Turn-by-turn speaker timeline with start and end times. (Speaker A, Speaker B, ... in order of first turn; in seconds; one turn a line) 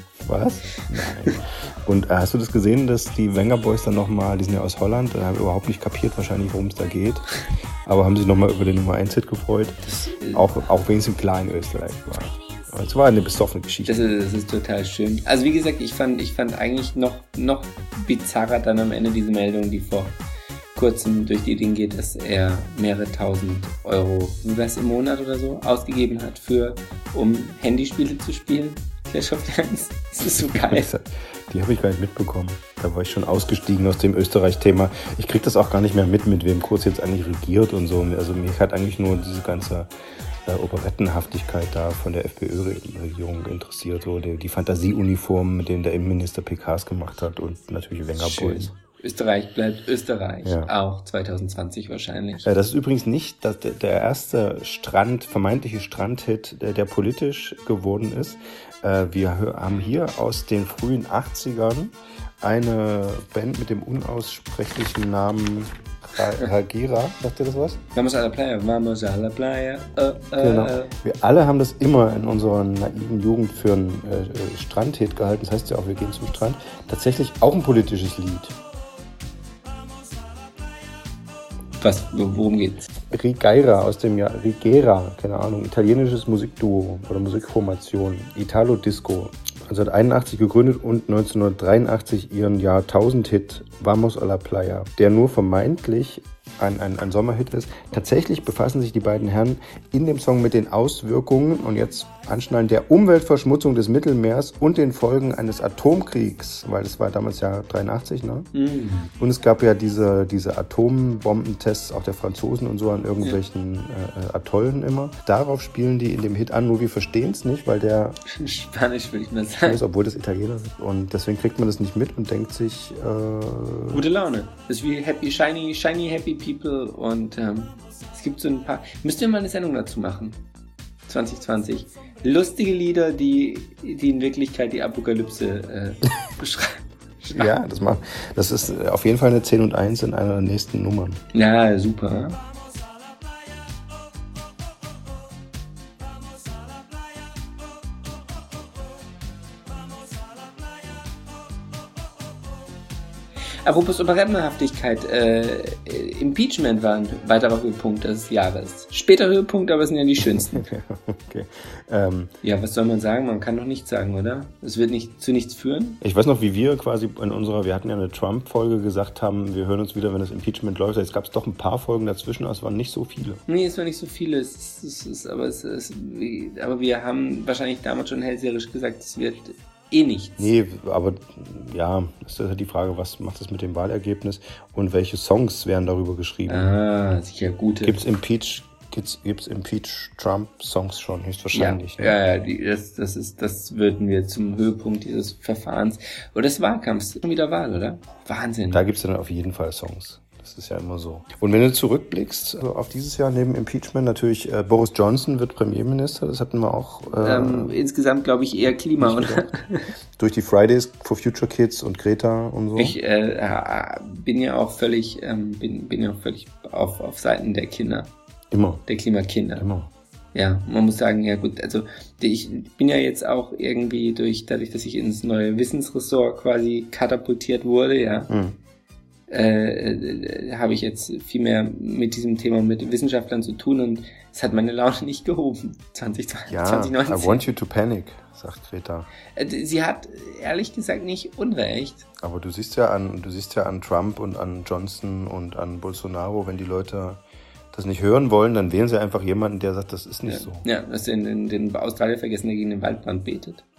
Speaker A: 0.2-7.3
Speaker A: 7.8-9.8
Speaker B: 9.9-10.4
Speaker A: 10.3-14.0
Speaker B: 13.8-20.1
Speaker B: 20.7-30.9
Speaker A: 30.5-39.9
Speaker A: 40.4-48.7
Speaker B: 48.2-52.5
Speaker A: 50.4-50.7
Speaker A: 52.4-67.8
Speaker B: 67.9-70.9
Speaker A: 70.4-78.5
Speaker B: 81.8-82.9
Speaker A: 83.1-108.5
Speaker B: 108.5-109.1
Speaker A: 109.2-118.2
Speaker B: 118.3-119.8
Speaker A: 119.6-124.0
Speaker B: 123.9-130.4
Speaker B: 131.1-137.5
Speaker A: 137.3-141.2
Speaker B: 141.3-142.4
Speaker B: 153.6-160.6
Speaker A: 160.2-162.3
Speaker B: 162.4-166.0
Speaker A: 166.0-173.4
Speaker B: 173.5-180.4
Speaker A: 180.4-186.7
Speaker B: 186.5-188.0
Speaker A: 187.8-192.2
Speaker B: 191.5-198.8
Speaker A: 198.7-207.7
Speaker B: 207.1-209.8
Speaker A: 209.0-209.5
Speaker A: 210.2-212.9
Speaker B: 212.8-218.1
Speaker A: 218.5-218.8
Speaker B: 218.9-219.6
Speaker A: 219.6-219.9
Speaker B: 220.3-228.3
Speaker A: 228.3-228.6
Speaker B: 229.3-237.4
Speaker A: 236.5-239.1
Speaker B: 239.3-242.1
Speaker A: 242.2-250.7
Speaker B: 250.2-253.6